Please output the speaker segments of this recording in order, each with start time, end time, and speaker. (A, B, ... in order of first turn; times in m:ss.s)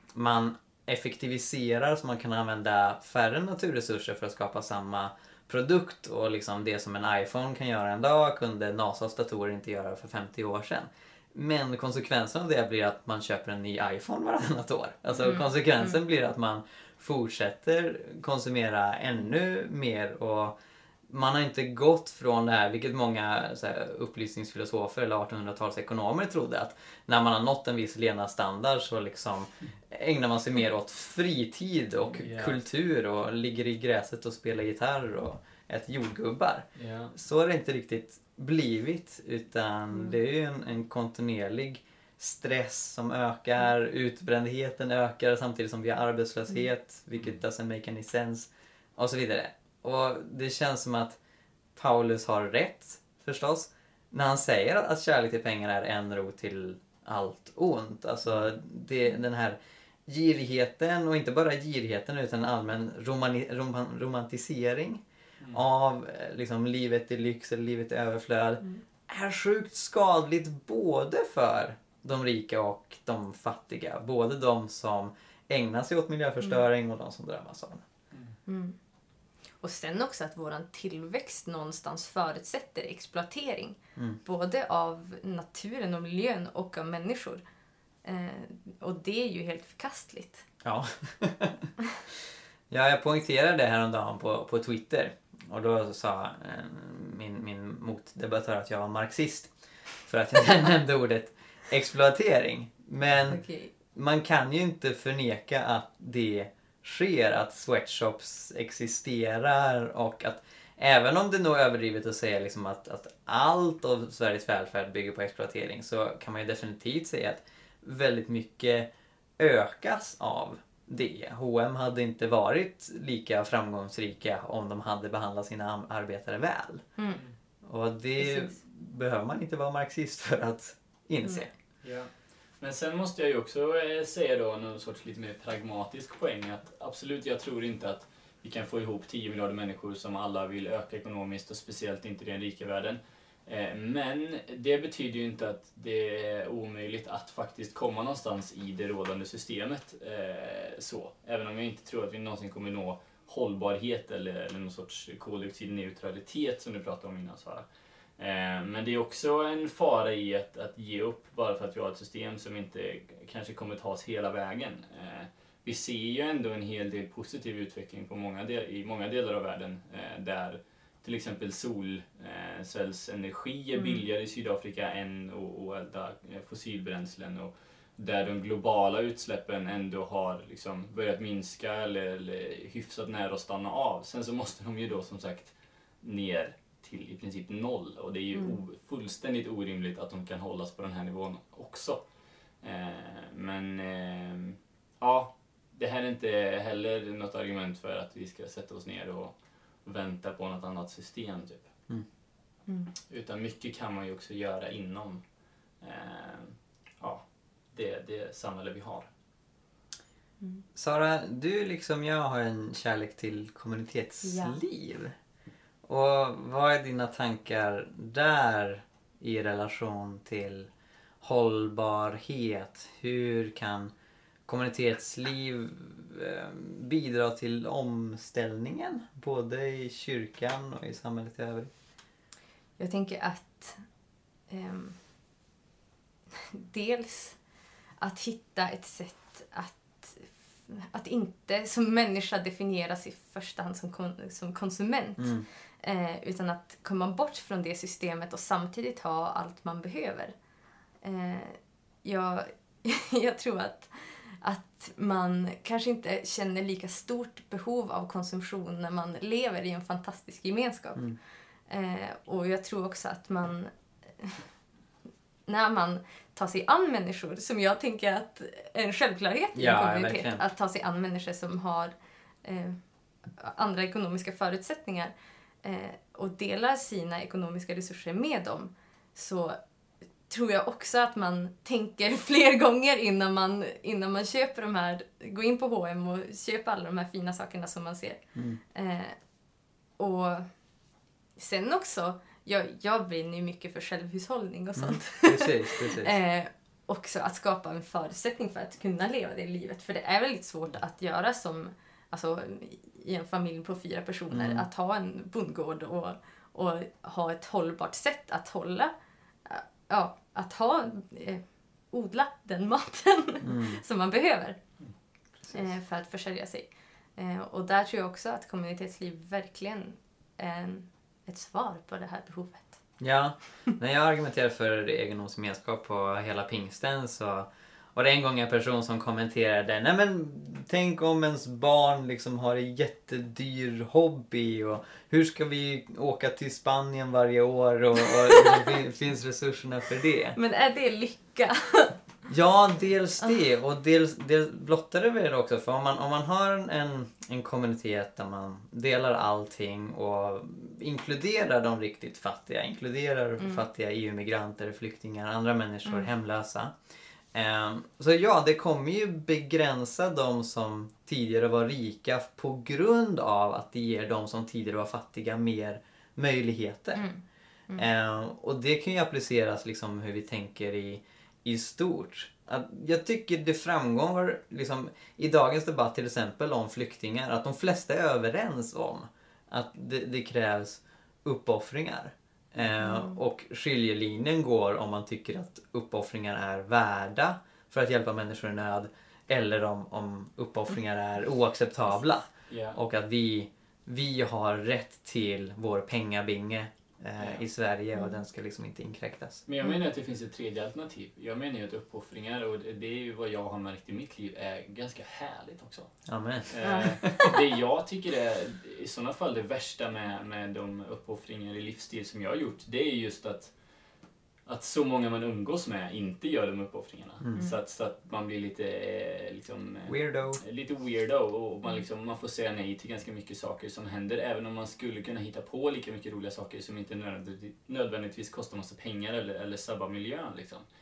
0:00.2-0:20.6 A
0:15.2-0:16.0 B
0:21.1-0:51.2 A
0:32.1-0:32.6 C
0:36.8-0:37.1 C
0:51.8-1:17.9 A
1:18.5-1:18.8 B
1:19.6-1:27.4 B
1:28.0-1:30.5 B
1:30.6-1:31.7 A
1:32.7-1:39.5 A
1:40.1-1:43.4 A
1:43.3-1:43.7 B
1:43.9-2:06.9 A
2:07.6-2:11.5 A
2:08.2-2:08.6 B
2:11.8-2:37.7 C
2:38.2-3:12.0 C
2:53.8-2:54.0 B
3:12.6-3:21.7 C
3:23.1-3:25.2 C
3:25.8-3:29.1 C
3:30.8-3:35.2 A
3:34.2-3:34.6 B
3:35.9-3:40.7 A
3:41.2-3:43.9 A
3:44.5-3:51.7 A
3:52.8-3:53.8 B
3:54.5-3:55.0 B
3:56.4-3:57.4 B
3:58.0-4:10.3 B
4:05.2-4:05.5 A
4:11.0-4:21.0 B
4:21.7-4:24.4 B
4:25.5-4:31.9 B
4:29.6-4:30.4 A
4:32.4-4:39.6 B
4:40.3-4:49.2 B
4:50.0-4:50.5 B
4:51.4-5:08.9 B
4:54.8-4:56.2 A
5:04.3-5:04.6 A
5:09.5-5:14.6 B
5:13.4-5:13.8 A
5:15.4-5:15.7 A
5:15.5-5:22.8 B
5:23.0-5:40.4 A
5:38.2-5:38.6 B
5:40.4-5:42.0 B
5:42.3-5:56.8 A
5:57.3-6:07.0 A
6:07.0-6:07.9 B
6:07.8-6:39.4 A
6:22.8-6:23.2 B
6:32.5-6:32.8 C
6:37.2-6:37.4 C
6:38.0-6:38.2 B
6:39.5-6:45.9 C
6:46.1-6:47.3 A
6:46.5-6:53.5 C
6:46.6-6:47.3 B
6:54.5-7:10.7 C
6:59.9-7:00.4 A